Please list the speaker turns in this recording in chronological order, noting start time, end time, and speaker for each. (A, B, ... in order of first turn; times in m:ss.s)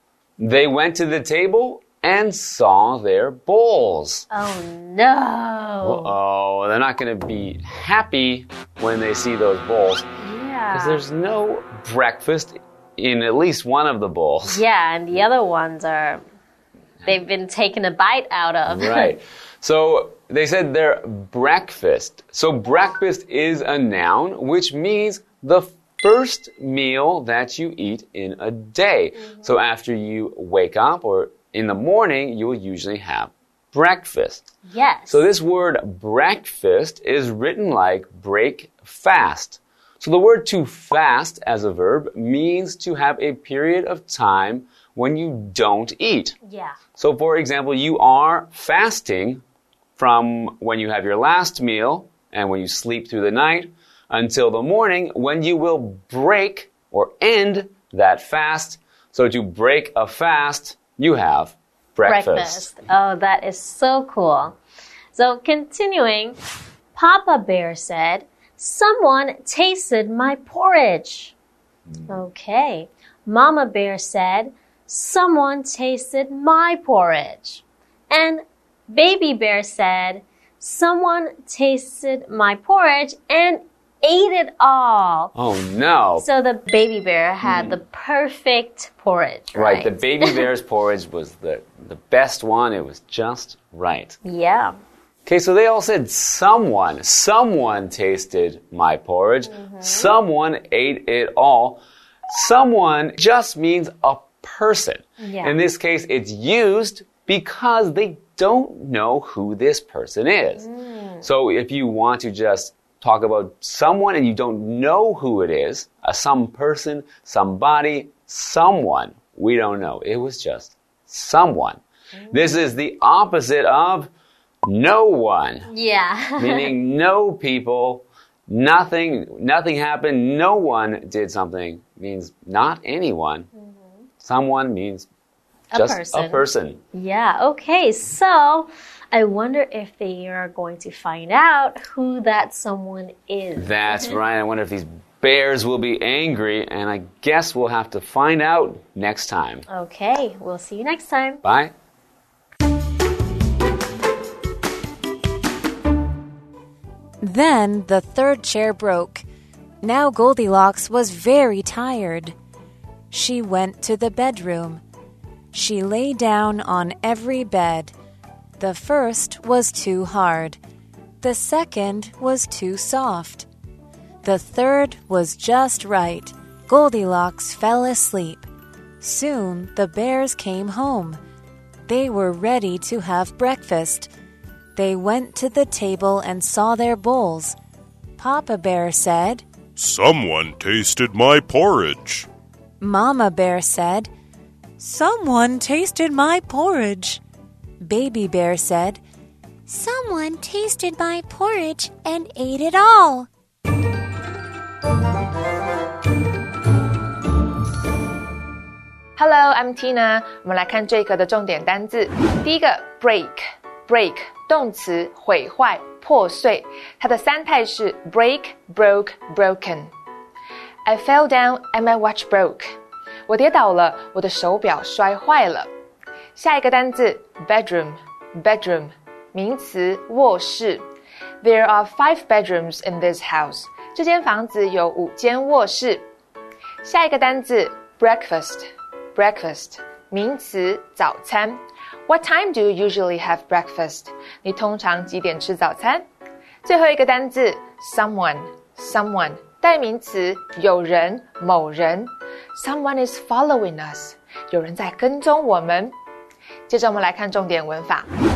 0:00.4-0:04.2 A
0:04.3-0:06.1 B
0:05.8-0:10.1 A
0:10.2-0:11.0 B
0:10.7-0:14.6 A
0:14.5-0:16.2 B
0:17.0-0:19.1 B
0:18.7-0:34.4 A
0:29.2-0:29.5 B
0:34.6-0:35.2 B
0:35.1-0:46.4 A
0:46.4-0:46.8 B
0:46.9-0:49.4 A
0:50.0-1:02.7 A
1:02.0-1:04.6 B
1:05.1-1:06.4 B
1:06.9-1:11.3 B
1:12.0-1:25.3 B
1:25.3-1:26.2 A
1:26.2-1:30.4 B
1:27.4-1:27.8 A
1:29.5-1:34.2 A
1:34.2-1:34.7 B
1:35.2-1:50.6 A
1:39.5-1:40.1 B
1:45.2-1:45.6 B
1:50.6-1:51.2 B
1:51.2-2:04.1 A
2:02.2-2:02.5 B
2:04.6-2:05.7 A
2:05.7-2:06.7 B
2:06.4-2:13.5 A
2:13.5-2:14.0 B
2:14.2-2:15.1 A
2:15.7-2:24.1 B
2:15.8-2:16.8 A
2:23.6-2:29.6 A
2:29.7-2:31.4 B
2:31.4-2:31.7 A
2:37.2-2:39.2 C
2:39.8-2:42.4 C
2:43.1-2:44.8 C
2:45.5-2:47.9 C
2:48.6-2:50.6 C
2:51.2-2:53.5 C
2:54.2-2:58.5 C
2:59.0-3:01.2 C
3:01.9-3:04.1 C
3:04.7-3:07.6 C
3:08.2-3:09.4 C
3:09.8-3:12.3 D
3:12.8-3:14.1 C
3:14.8-3:17.2 C
3:17.8-3:19.0 C
3:19.7-3:23.3 C
3:29.2-3:39.9 E
3:40.8-3:42.7 E
3:43.3-3:45.7 E
3:46.4-3:50.8 E
3:51.4-3:56.0 E
3:56.8-4:06.0 E
4:06.6-4:15.9 E
4:16.7-4:18.1 E